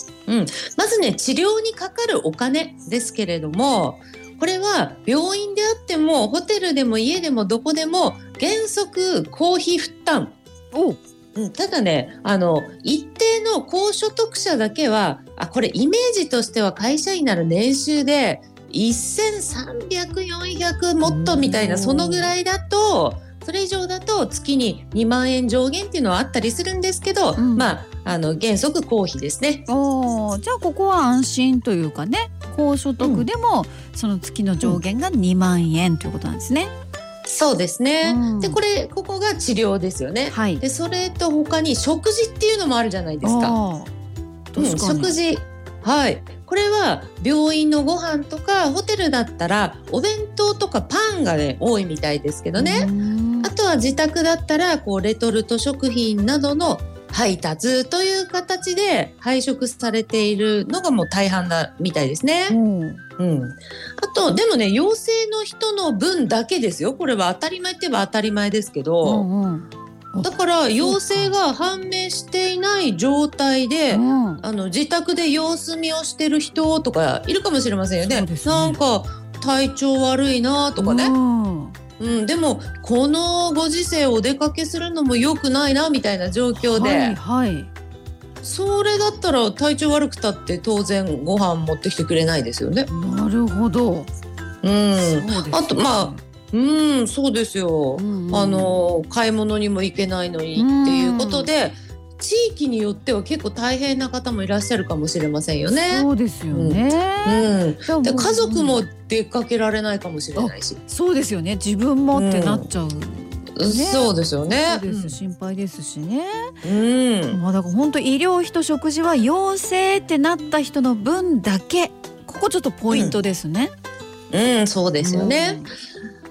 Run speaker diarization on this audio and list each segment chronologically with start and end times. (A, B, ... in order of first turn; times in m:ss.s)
0:00.3-0:10.4 A
0:10.7-0:11.0 B
0:11.4-0:29.7 A
0:21.0-0:22.3 B
0:27.4-0:27.8 B
0:29.7-0:36.7 B
0:33.0-0:33.3 A
0:37.3-0:43.6 A
0:38.0-0:38.6 B
0:40.3-0:40.6 B
0:43.2-0:43.9 B
0:44.5-0:45.1 B
0:44.6-0:52.9 A
0:52.6-0:53.5 B
0:53.4-1:02.6 A
1:02.5-1:03.0 B
1:03.2-1:09.3 A
1:09.0-1:11.3 B
1:10.2-1:21.1 A
1:13.9-1:14.4 B
1:18.0-1:18.8 B
1:20.8-1:21.8 B
1:22.0-1:27.2 A
1:26.5-1:27.7 B
1:28.4-1:32.9 A
1:32.9-1:34.1 B
1:34.6-1:50.8 A
1:35.0-1:36.2 B
1:38.0-1:38.8 B
1:40.6-1:41.5 B
1:45.7-1:48.8 B
1:50.4-1:56.5 B
1:52.1-1:52.7 A
1:53.6-1:55.2 A
1:56.6-1:57.4 A
1:57.3-2:03.7 B
2:02.9-2:03.2 A
2:04.3-2:05.6 A
2:05.0-2:05.7 B